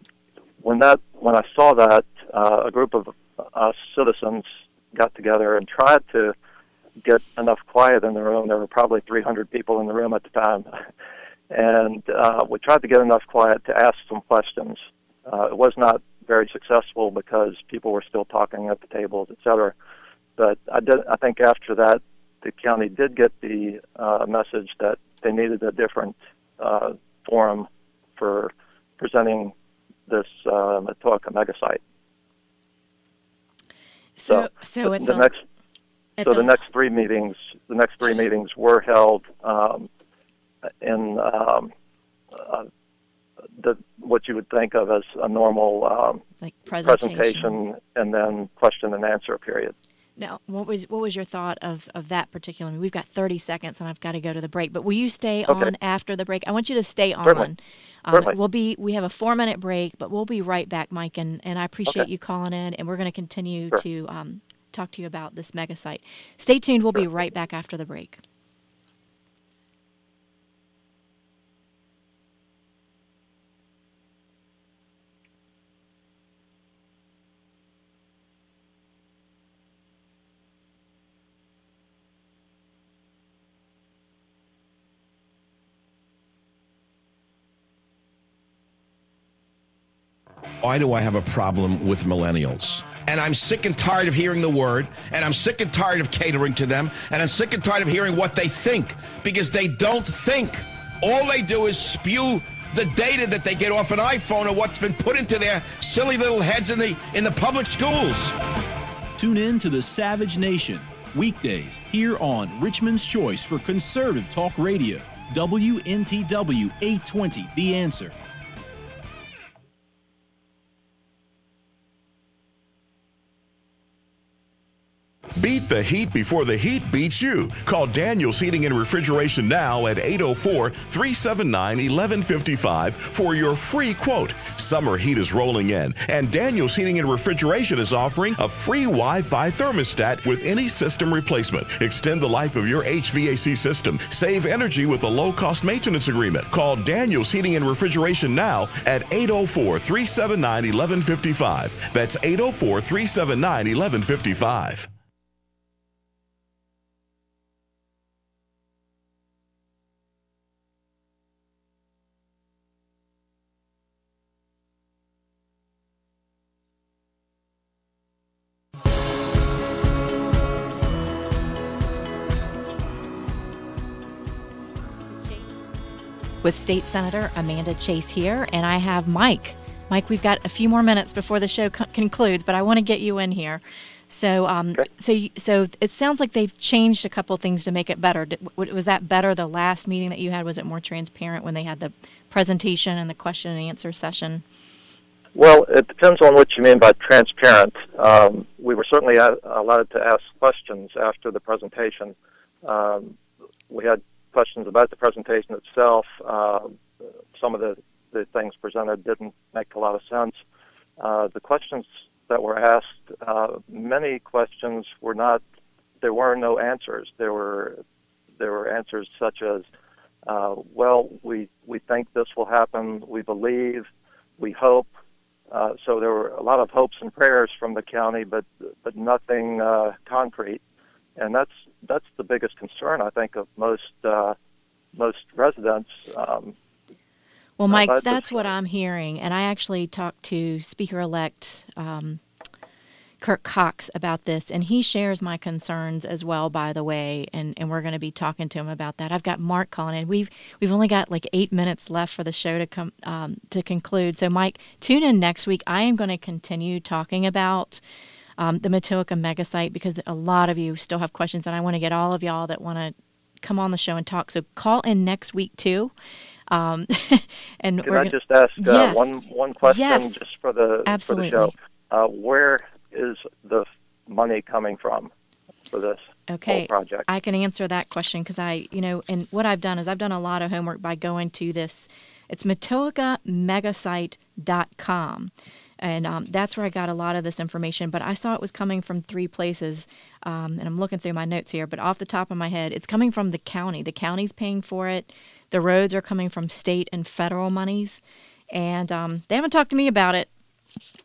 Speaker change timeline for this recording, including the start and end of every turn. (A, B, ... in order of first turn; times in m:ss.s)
0:00.6-0:06.3 A
0:07.0-0:10.8 A
0:11.5-0:19.7 A
0:20.4-0:29.5 A
0:30.1-0:31.8 A
0:34.2-0:35.3 B
0:34.3-0:35.4 A
0:36.2-0:36.5 B
0:36.2-0:39.9 A
0:40.8-0:41.7 A
0:42.3-0:42.7 A
0:43.6-0:46.2 A
0:46.4-0:47.5 B
0:46.8-0:49.7 A
0:50.2-1:08.2 B
0:55.5-0:55.7 A
0:57.2-0:57.5 A
1:30.6-1:48.3 C
1:49.2-1:58.2 D
2:05.4-2:34.9 E
2:55.1-2:55.7 B
2:56.4-3:14.4 B
3:15.3-3:23.2 A
3:23.7-3:26.8 A
3:27.3-3:30.4 A
3:31.0-3:35.4 A
3:36.0-3:37.8 A
3:38.4-3:39.7 A
3:40.3-3:43.9 A
3:44.4-3:44.9 A
3:45.5-3:50.6 A
3:51.2-3:54.3 A
3:54.9-3:56.5 A
3:57.6-4:02.2 B
3:57.7-3:58.5 A
4:03.2-4:17.8 B
4:18.4-4:25.9 B
4:26.5-4:29.1 B
4:27.8-4:35.1 A
4:29.6-4:30.2 B
4:30.8-4:31.5 B
4:35.7-4:37.0 A
4:36.3-5:00.3 B